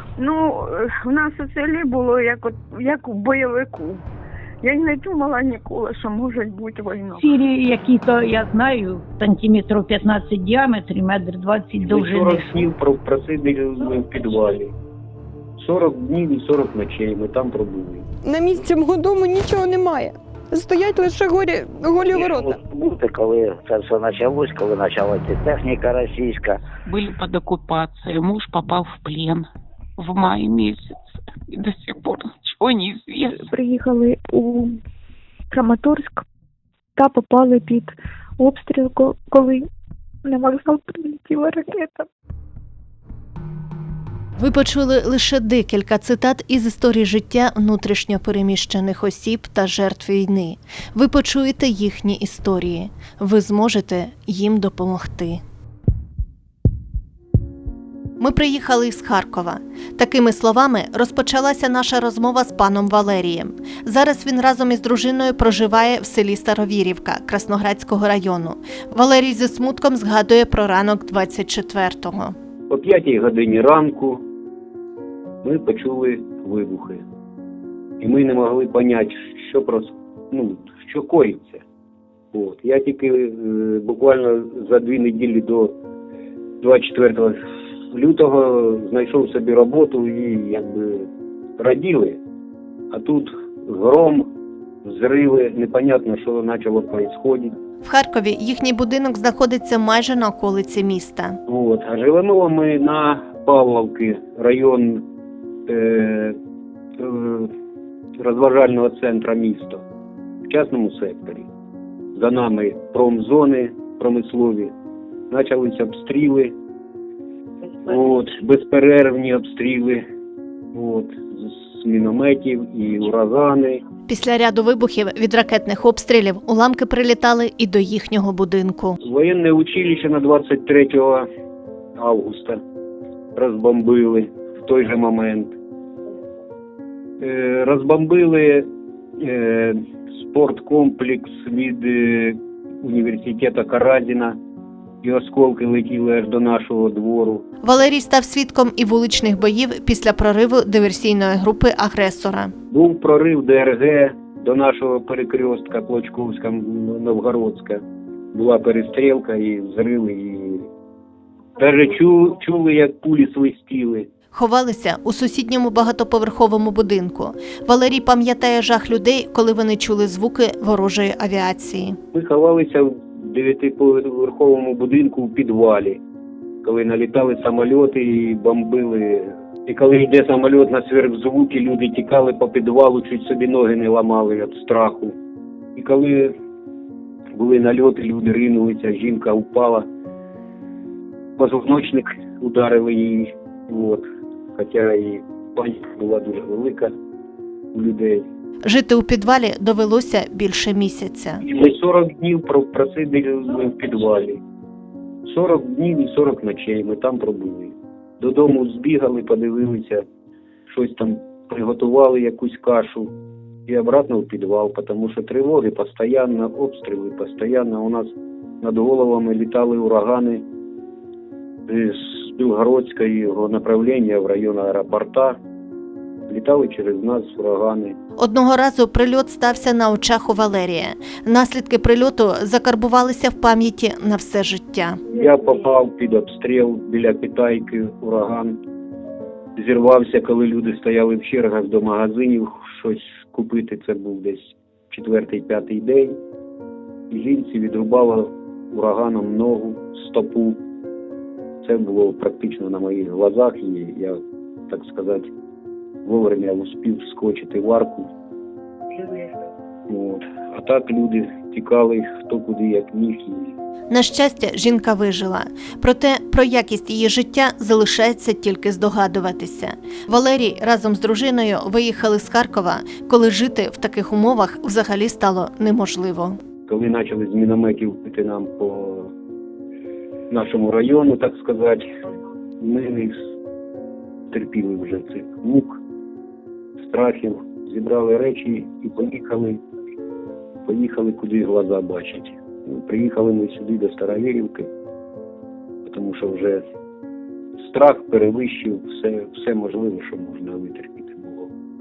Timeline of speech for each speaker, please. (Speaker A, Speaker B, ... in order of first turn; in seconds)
Speaker A: 0.2-4.0, 4.6-7.4
Speaker B: 7.2-12.7
Speaker C: 11.8-14.7, 15.6-18.1, 72.7-74.2, 75.4-77.0, 78.0-81.6, 82.3-85.8, 86.6-87.4, 87.9-92.2, 92.9-94.3, 94.8-97.5, 101.5-105.0, 105.7-106.4, 107.0-107.5, 108.2-109.8, 110.5-111.5, 112.1-114.7, 115.3-116.5, 117.8-120.0, 120.7-123.8, 129.0-131.3, 132.0-132.6, 133.3-135.6, 137.2-144.4, 145.0-147.4, 152.7-160.7, 161.6-164.1, 172.1-176.0, 176.6-185.2, 185.8-186.3, 187.3-189.9, 191.4-194.0, 194.6-196.9, 197.7-198.3, 201.4-204.4, 205.2-210.0, 210.7-213.1, 213.7-220.4, 221.7-225.4, 226.3-228.0, 235.1-238.6, 239.6-246.2, 247.1-250.6, 251.6-254.2, 254.7-255.3, 256.0-258.1, 259.9-263.6, 276.7-279.1, 280.3-281.9, 282.6-283.1, 284.3-285.8, 286.9-289.6, 290.6-294.7, 295.8-296.6, 297.6-301.5
Speaker D: 18.2-22.6
Speaker E: 22.1-26.6
Speaker F: 26.9-31.0, 31.5-33.4
Speaker G: 33.4-34.8, 35.5-36.2, 37.0-39.7, 40.2-42.1
Speaker H: 44.4-55.4, 58.2-72.3, 97.8-101.4, 124.1-129.0, 147.6-152.5, 164.3-172.0, 198.6-201.4, 228.2-235.0, 263.9-276.4